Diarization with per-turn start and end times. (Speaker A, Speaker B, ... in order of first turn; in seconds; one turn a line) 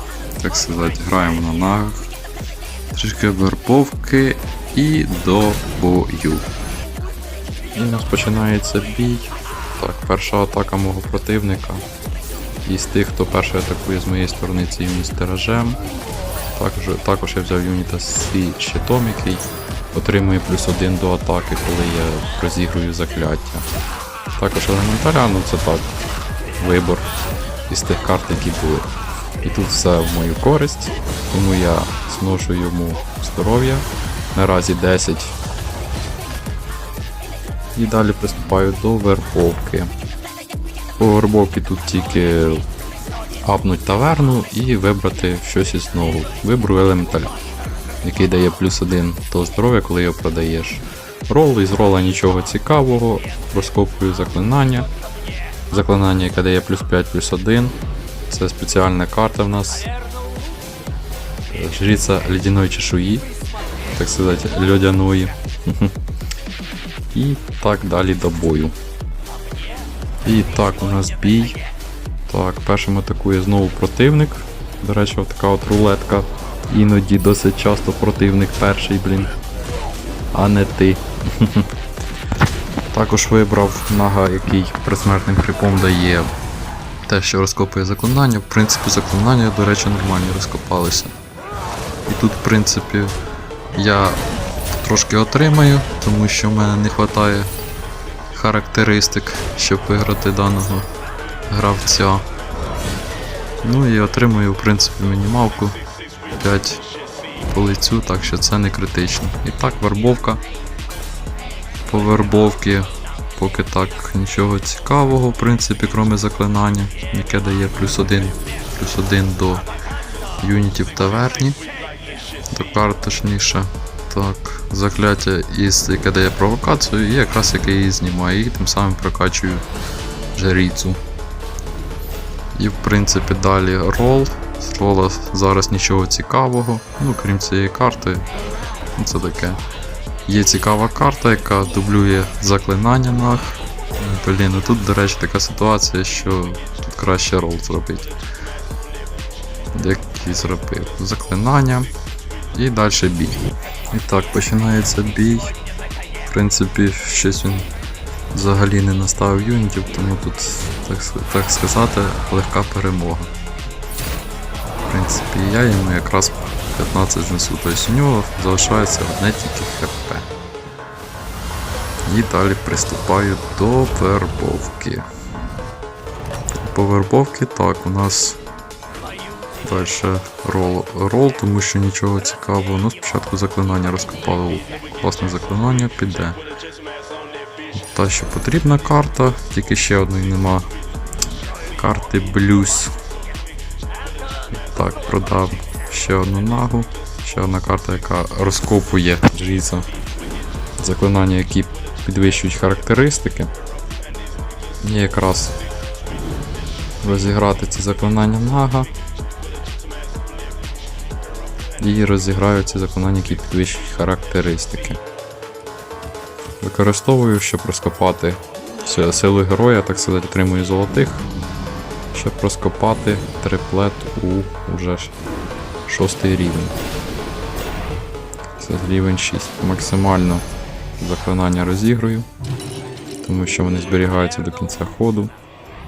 Speaker A: 0.4-2.1
Speaker A: 2.9-6.5
Speaker A: 7.7-11.8
Speaker A: 12.6-15.8
Speaker A: 16.5-23.6
Speaker A: 24.4-25.9
Speaker A: 26.6-27.1
Speaker A: 27.7-28.9
Speaker A: 29.4-35.4
Speaker A: 37.8-39.9
Speaker A: 41.0-42.6
Speaker A: 43.4-47.4
Speaker A: 48.0-54.9
Speaker A: 55.7-57.8
Speaker A: 58.3-59.9
Speaker A: 61.5-63.3
Speaker A: 63.9-65.9
Speaker A: 67.1-68.7
Speaker A: 70.2-71.6
Speaker A: 72.3-79.3
Speaker A: 80.3-81.7
Speaker A: 82.9-86.3
Speaker A: 87.1-91.1
Speaker A: 92.0-93.1
Speaker A: 93.7-94.2
Speaker A: 94.7-97.5
Speaker A: 98.3-100.9
Speaker A: 101.5-102.2
Speaker A: 103.6-105.8
Speaker A: 106.3-106.8
Speaker A: 107.4-110.4
Speaker A: 111.8-119.7
Speaker A: 120.4-121.6
Speaker A: 122.5-129.7
Speaker A: 130.3-131.0
Speaker A: 132.5-138.3
Speaker A: 138.9-139.6
Speaker A: 140.2-148.1
Speaker A: 149.7-151.9
Speaker A: 152.5-155.6
Speaker A: 156.3-157.7
Speaker A: 158.3-163.3
Speaker A: 164.9-170.2
Speaker A: 172.1-175.1
Speaker A: 176.6-178.4
Speaker A: 179.6-186.4
Speaker A: 187.7-190.7
Speaker A: 191.8-192.9
Speaker A: 194.5-199.9
Speaker A: 200.8-203.5
Speaker A: 204.8-205.6
Speaker A: 207.0-208.9
Speaker A: 211.8-215.0
Speaker A: 216.6-221.3
Speaker A: 222.1-225.1
Speaker A: 225.9-226.8
Speaker A: 228.6-230.4
Speaker A: 231.0-232.3
Speaker A: 233.2-235.3